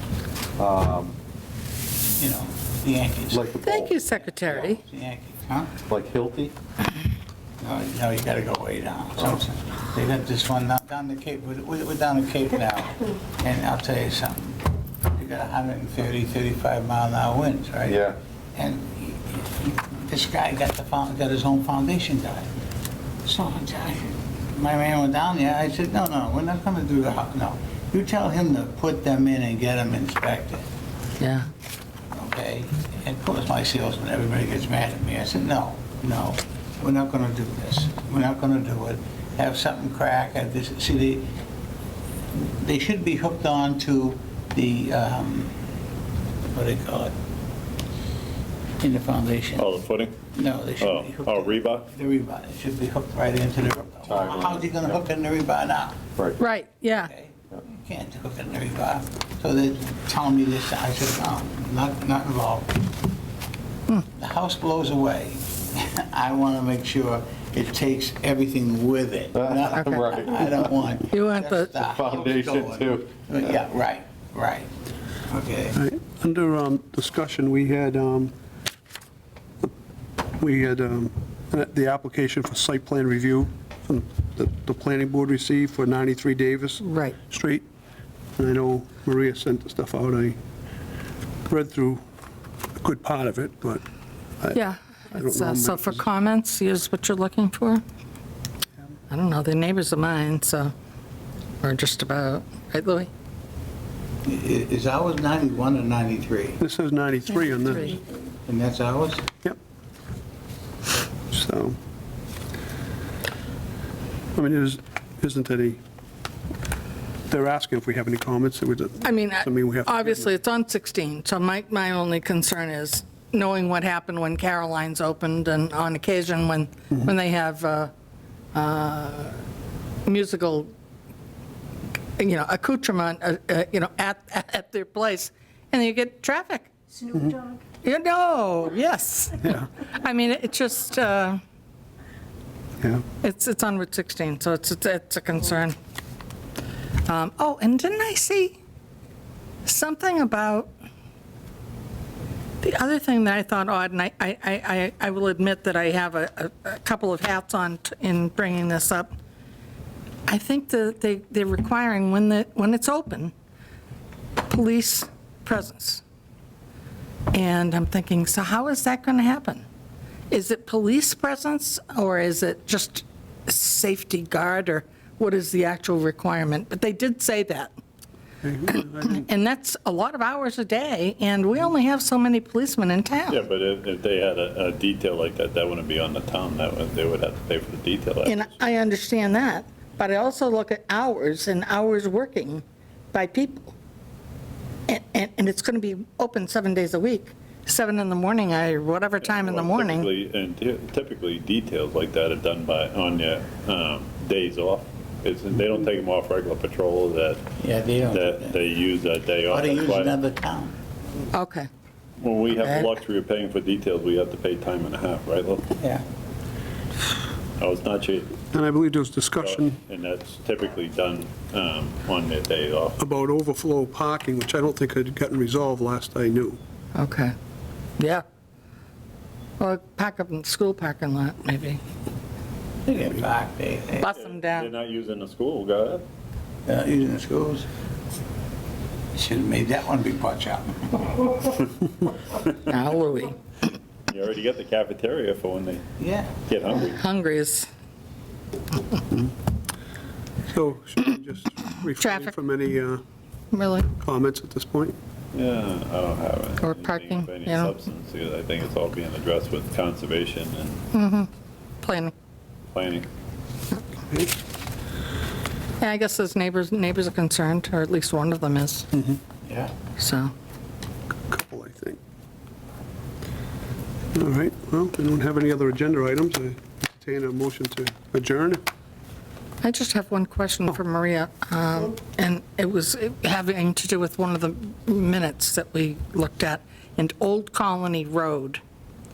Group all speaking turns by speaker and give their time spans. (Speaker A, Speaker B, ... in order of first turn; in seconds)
Speaker A: 0.6-1.1, 3.3-4.0, 5.9-6.5, 17.8-18.1, 54.0-55.0, 69.3-70.7, 71.8-73.4
Speaker B: 2.2-5.8, 7.6-22.5, 23.2-30.6, 32.1-41.3, 42.4-45.5, 46.5-47.1, 48.8-49.7, 50.3-56.0, 57.1-62.7, 64.1-74.7, 75.3-75.8, 104.2-106.6, 108.5-109.2, 207.6-208.6, 209.4-210.7, 215.8-216.0, 232.8-234.1, 236.7-237.7, 239.1-241.3, 246.0-246.4, 269.4-269.8
Speaker C: 3.6-4.8, 31.2-31.5, 56.4-57.1, 71.1-71.7, 86.8-87.2, 94.5-97.8, 99.1-100.7, 101.6-103.1, 107.6-108.0, 119.0-127.9, 128.5-129.4, 130.0-130.7, 132.2-141.4, 143.2-145.7, 147.0-148.6, 149.6-150.7, 152.6-159.1, 160.3-163.3, 164.5-166.0, 167.3-169.6, 170.3-177.7, 178.7-183.4, 188.2-193.7, 194.9-200.1, 211.3-211.7, 212.6-212.9, 226.9-227.3, 228.0-228.2, 229.6-231.8, 234.0-234.7, 242.6-243.3, 246.8-247.7, 252.0-252.3, 253.5-253.9, 256.6-257.7, 260.9-261.3, 261.8-262.1, 265.8-268.9, 270.0-270.3, 279.6-288.6
Speaker D: 49.5-50.2, 50.8-51.9, 183.3-188.5, 199.2-207.4, 208.1-210.2, 212.2-215.7, 217.6-218.4, 219.4-223.0, 234.1-236.0, 244.1-245.8, 246.4-247.0, 255.3-260.8, 262.7-263.1
Speaker E: 75.7-78.3, 80.4-87.7, 88.4-90.4, 91.5-92.0, 92.8-93.8, 95.1-96.0, 106.6-108.0, 111.3-111.8, 114.3-115.8, 117.3-120.3, 178.4-179.2, 218.5-219.8, 223.0-226.6, 250.5-253.0, 254.0-254.9, 268.9-269.2, 271.3-272.0, 274.1-278.6